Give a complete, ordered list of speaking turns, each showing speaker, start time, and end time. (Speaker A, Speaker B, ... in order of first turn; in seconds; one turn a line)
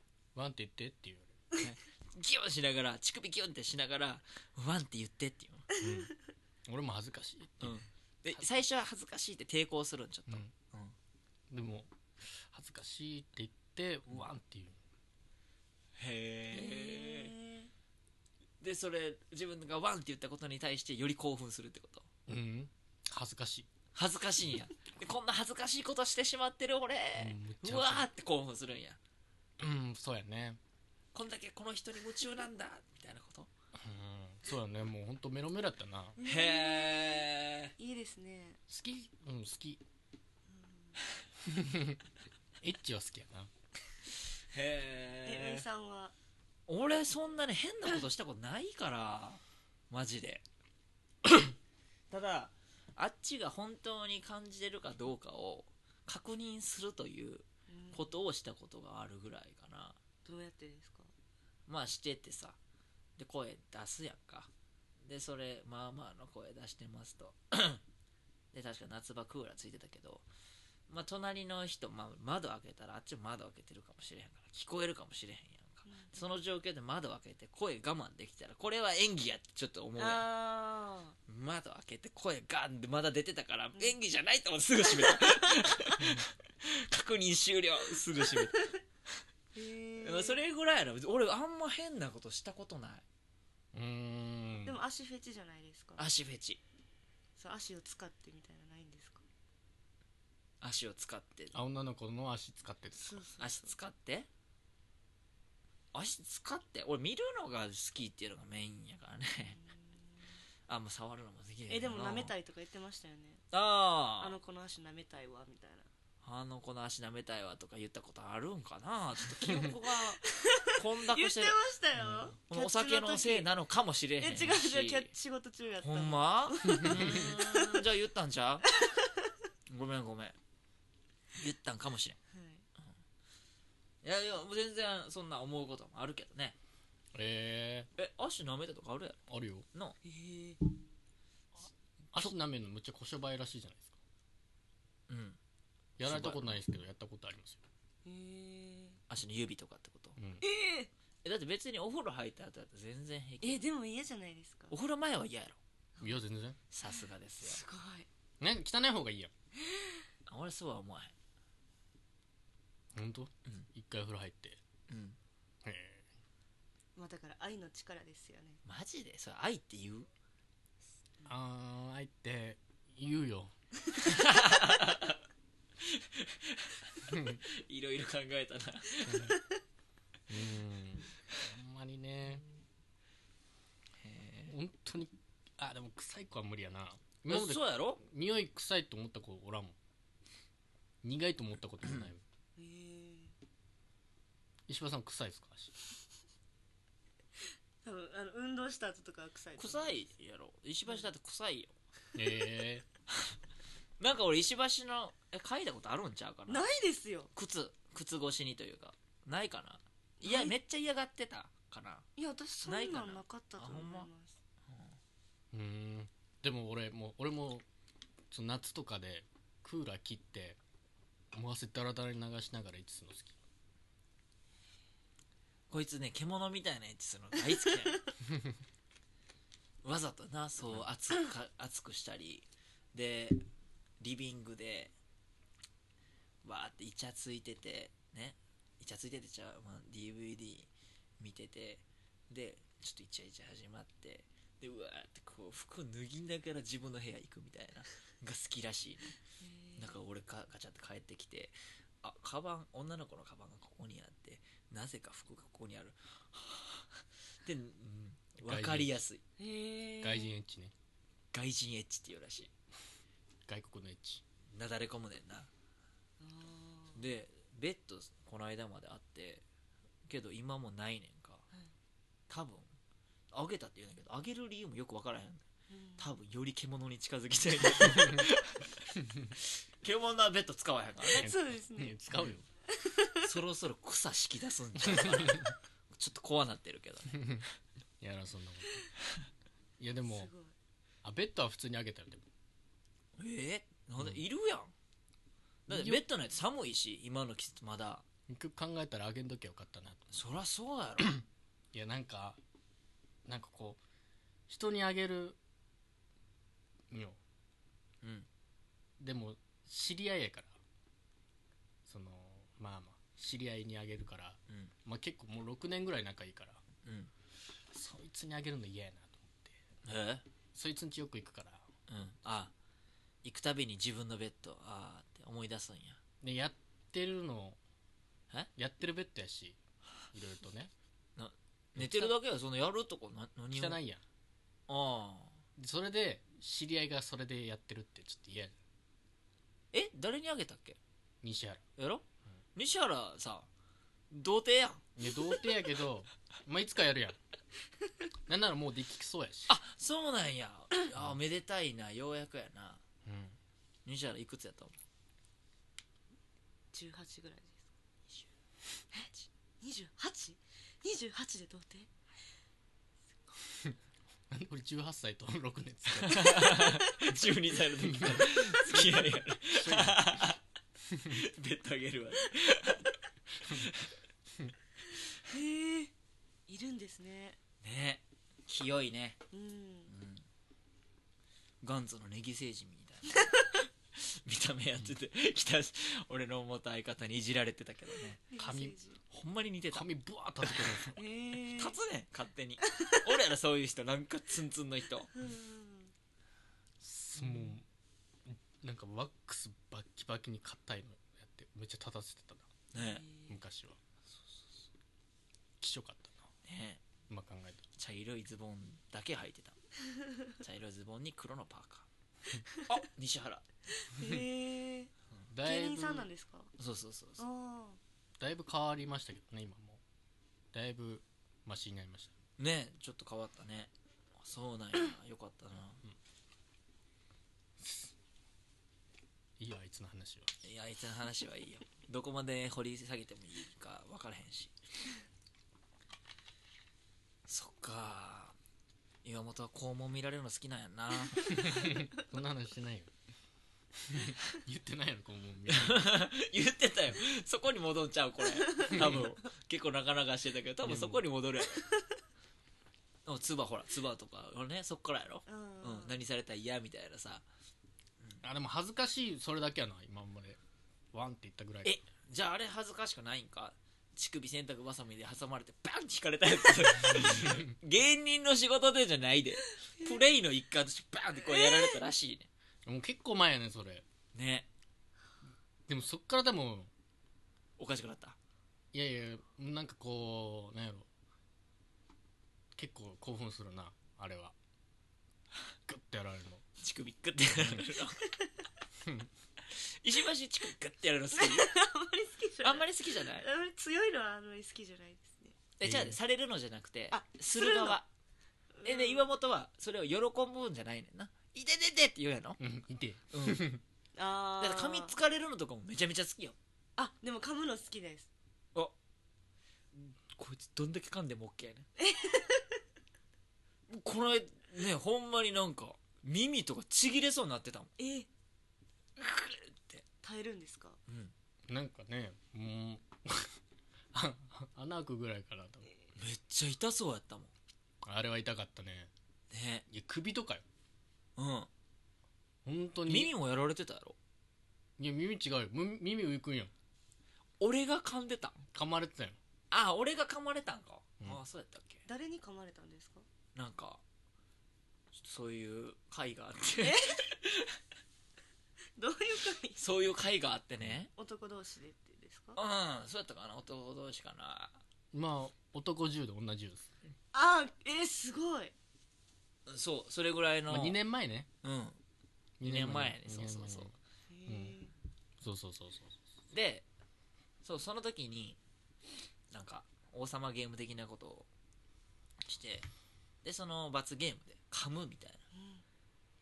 Speaker A: 0.3-1.4
Speaker B: 1.6-5.7
Speaker C: 5.7-6.1
Speaker A: 5.8-6.1
Speaker A: 6.7-7.8
Speaker B: 7.6-10.9
Speaker A: 11.5-14.8
Speaker B: 16.0-17.3
Speaker C: 16.5-17.7
Speaker B: 18.6-22.1
Speaker A: 22.3-23.7
Speaker B: 23.9-29.0
Speaker A: 27.2-28.1
Speaker A: 29.6-30.6
Speaker B: 31.1-33.5
Speaker A: 33.7-36.1
Speaker C: 36.2-37.3
Speaker B: 36.2-37.7
Speaker C: 37.8-38.6
Speaker A: 38.7-39.8
Speaker C: 40.5-41.0
Speaker A: 41.4-42.0
Speaker A: 42.6-43.5
Speaker B: 44.5-45.6
Speaker C: 45.2-46.1
Speaker B: 46.7-50.4
Speaker B: 52.1-60.0
Speaker C: 57.7-58.1
Speaker C: 60.2-61.1
Speaker B: 61.7-62.6
Speaker B: 63.2-64.5
Speaker B: 65.0-67.8
Speaker B: 68.5-70.2
Speaker B: 70.9-80.2
Speaker C: 75.9-76.3
Speaker C: 80.0-81.2
Speaker B: 81.3-88.7
Speaker C: 85.0-85.5
Speaker C: 89.5-90.4
Speaker B: 90.0-93.0
Speaker A: 93.7-94.8
Speaker C: 94.6-96.0
Speaker B: 96.0-96.6
Speaker C: 97.4-99.2
Speaker B: 100.6-101.6
Speaker A: 101.5-103.2
Speaker C: 103.0-103.7
Speaker B: 103.4-104.3
Speaker B: 105.9-109.6
Speaker C: 109.5-109.8
Speaker B: 110.7-112.3
Speaker C: 111.7-113.4
Speaker B: 113.5-114.4
Speaker C: 114.2-115.9
Speaker B: 116.2-121.6
Speaker C: 120.2-123.5
Speaker B: 122.4-125.1
Speaker C: 124.2-127.8
Speaker B: 125.8-128.7
Speaker C: 128.7-129.3
Speaker B: 129.7-130.3
Speaker B: 131.4-132.2
Speaker C: 132.3-132.6
Speaker B: 134.0-136.6
Speaker A: 137.1-137.9
Speaker B: 138.0-139.2
Speaker A: 139.3-139.7
Speaker C: 140.0-140.6
Speaker A: 142.1-144.0
Speaker B: 145.1-145.4
Speaker A: 146.0-147.6
Speaker B: 146.0-146.6
Speaker C: 148.0-149.0
Speaker B: 149.1-150.2
Speaker A: 150.2-150.4
Speaker C: 150.4-150.9
Speaker B: 151.2-153.6
Speaker C: 153.4-154.7
Speaker B: 154.7-155.6
Speaker A: 156.0-156.6
Speaker B: 156.7-157.6
Speaker C: 157.4-158.1
Speaker A: 158.4-159.3
Speaker C: 159.6-160.0
Speaker B: 160.3-161.1
Speaker A: 162.9-164.6
Speaker B: 164.9-165.2
Speaker A: 165.6-166.0
Speaker C: 166.9-168.6
Speaker B: 168.6-170.1
Speaker A: 171.2-173.5
Speaker B: 174.0-175.2
Speaker B: 175.8-179.3
Speaker A: 177.1-177.4
Speaker A: 179.1-179.3
Speaker A: 180.3-182.4
Speaker B: 184.0-184.5
Speaker A: 184.5-189.7
Speaker B: 187.3-188.0
Speaker A: 191.0-192.2
Speaker C: 192.6-193.3
Speaker A: 194.7-195.7
Speaker C: 197.8-200.0
Speaker B: 199.6-201.7
Speaker A: 202.1-202.8
Speaker B: 204.0-206.7
Speaker C: 206.5-207.3
Speaker B: 207.3-212.1
Speaker C: 210.2-210.5
Speaker C: 212.2-214.3
Speaker B: 212.6-214.1
Speaker A: 215.5-217.6
Speaker A: 218.3-220.6
Speaker A: 221.3-223.3
Speaker B: 225.7-228.0
Speaker B: 229.8-233.4
Speaker B: 234.0-234.9
Speaker B: 236.4-240.7
Speaker B: 241.2-249.2
Speaker C: 249.4-249.9
Speaker B: 249.8-259.2
Speaker A: 258.4-259.0
Speaker C: 259.4-260.3
Speaker A: 260.0-260.7
Speaker B: 261.3-262.5
Speaker A: 263.5-264.2
Speaker B: 264.5-265.5
Speaker C: 266.2-267.0
Speaker B: 266.9-269.4
Speaker B: 270.1-271.4
Speaker B: 272.3-272.7
Speaker B: 273.3-275.4
Speaker C: 275.7-276.1
Speaker B: 276.0-281.3
Speaker C: 281.1-282.0
Speaker A: 281.2-282.4
Speaker C: 282.7-283.3
Speaker B: 283.2-287.3
Speaker A: 284.8-285.5
Speaker A: 287.1-287.4
Speaker A: 288.0-288.8
Speaker A: 289.8-290.3
Speaker C: 290.0-290.5
Speaker A: 291.0-292.2
Speaker B: 293.2-294.7
Speaker B: 295.7-298.0
Speaker A: 295.7-296.0
Speaker A: 298.3-300.1
Speaker B: 300.1-301.2
Speaker A: 301.7-302.4
Speaker A: 303.2-303.8
Speaker A: 304.5-305.4
Speaker A: 306.9-307.2
Speaker B: 308.0-308.3
Speaker A: 309.0-310.6
Speaker A: 311.9-316.6
Speaker B: 316.8-317.1
Speaker A: 317.7-319.6
Speaker B: 319.8-320.2
Speaker A: 320.5-321.7
Speaker B: 321.9-322.5
Speaker B: 323.2-326.0
Speaker A: 326.2-327.6
Speaker A: 328.6-329.6
Speaker A: 330.1-330.7
Speaker B: 331.2-333.8
Speaker A: 331.8-332.1
Speaker A: 333.5-334.0
Speaker B: 334.7-335.4
Speaker A: 335.6-338.5
Speaker B: 339.7-340.8
Speaker A: 341.2-341.6
Speaker B: 341.8-342.0
Speaker B: 342.5-343.5
Speaker B: 344.1-344.8
Speaker A: 344.9-347.2
Speaker A: 348.2-349.5
Speaker B: 349.5-352.8
Speaker A: 353.0-353.4
Speaker B: 353.8-354.8
Speaker C: 356.7-357.6
Speaker C: 359.6-361.9
Speaker A: 364.3-366.5
Speaker B: 366.0-370.4
Speaker A: 367.9-369.0
Speaker A: 369.5-370.2
Speaker A: 370.9-371.2
Speaker B: 371.0-373.9
Speaker C: 375.2-375.9
Speaker C: 376.5-377.4
Speaker B: 377.6-379.2
Speaker C: 379.3-379.9
Speaker B: 379.9-380.2
Speaker B: 381.6-388.2
Speaker C: 388.3-389.0
Speaker A: 388.4-388.8
Speaker B: 389.1-389.9
Speaker A: 389.7-391.0
Speaker B: 390.4-390.9
Speaker C: 390.9-391.8
Speaker B: 391.5-395.1
Speaker C: 395.1-395.9
Speaker A: 396.8-397.6
Speaker A: 398.3-402.5
Speaker B: 402.7-403.0
Speaker C: 402.8-403.3
Speaker A: 403.3-403.8
Speaker A: 405.6-406.2
Speaker B: 406.4-406.8
Speaker A: 407.1-407.6
Speaker B: 407.8-409.6
Speaker B: 410.4-411.9
Speaker B: 412.6-413.4
Speaker C: 413.8-414.9
Speaker A: 415.3-416.1
Speaker C: 415.4-416.5
Speaker B: 416.6-417.2
Speaker C: 417.2-417.8
Speaker A: 418.2-419.8
Speaker A: 420.5-422.1
Speaker B: 422.4-425.8
Speaker A: 427.6-427.9
Speaker A: 429.4-430.3
Speaker B: 430.4-434.5
Speaker B: 437.3-438.3
Speaker B: 439.0-441.8
Speaker A: 441.4-442.9
Speaker A: 443.8-445.9
Speaker B: 445.5-451.6
Speaker A: 448.7-449.1
Speaker A: 450.6-451.0
Speaker B: 453.1-457.2
Speaker C: 455.3-456.0
Speaker A: 458.2-460.4
Speaker A: 460.9-461.7
Speaker B: 461.6-472.3
Speaker A: 467.0-467.4
Speaker C: 471.3-471.7
Speaker A: 472.6-473.8
Speaker B: 474.1-474.5
Speaker A: 475.7-476.7
Speaker B: 477.6-478.2
Speaker A: 478.7-480.9
Speaker A: 482.5-484.3
Speaker A: 485.7-486.4
Speaker B: 486.6-488.0
Speaker A: 487.4-487.6
Speaker A: 488.8-489.1
Speaker B: 489.4-491.5
Speaker C: 491.1-495.4
Speaker B: 492.4-493.2
Speaker B: 495.6-497.9
Speaker A: 495.6-496.0
Speaker C: 496.9-497.8
Speaker C: 498.5-499.1
Speaker B: 498.6-502.4
Speaker A: 502.4-503.6
Speaker B: 503.1-503.5
Speaker C: 503.9-504.9
Speaker B: 504.4-506.4
Speaker C: 506.8-508.1
Speaker B: 509.7-511.6
Speaker C: 511.8-512.6
Speaker B: 513.7-517.7
Speaker C: 517.8-518.1
Speaker B: 519.0-519.8
Speaker C: 520.0-520.8
Speaker B: 520.9-521.1
Speaker A: 521.5-523.4
Speaker A: 523.9-525.7
Speaker B: 526.0-527.3
Speaker A: 527.8-528.9
Speaker B: 529.3-529.6
Speaker A: 529.7-530.4
Speaker B: 531.2-531.5
Speaker A: 532.4-533.1
Speaker B: 532.9-534.0
Speaker A: 534.8-536.5
Speaker B: 537.4-538.4
Speaker A: 538.5-539.2
Speaker B: 539.5-541.8
Speaker C: 541.9-543.0
Speaker B: 543.3-543.8
Speaker B: 545.0-547.5
Speaker C: 546.6-547.0
Speaker C: 548.8-549.6
Speaker B: 549.6-550.9
Speaker C: 551.0-552.4
Speaker B: 552.4-554.6
Speaker A: 554.9-556.8
Speaker C: 557.1-558.5
Speaker B: 559.5-560.8
Speaker A: 560.5-561.3
Speaker B: 561.4-561.8
Speaker A: 562.4-563.8
Speaker B: 562.4-563.7
Speaker C: 564.1-564.7
Speaker A: 564.3-564.5
Speaker A: 565.2-566.0
Speaker B: 566.3-566.6
Speaker B: 567.4-568.4
Speaker B: 569.3-571.3
Speaker B: 572.2-572.7
Speaker B: 573.2-575.2
Speaker C: 575.3-575.6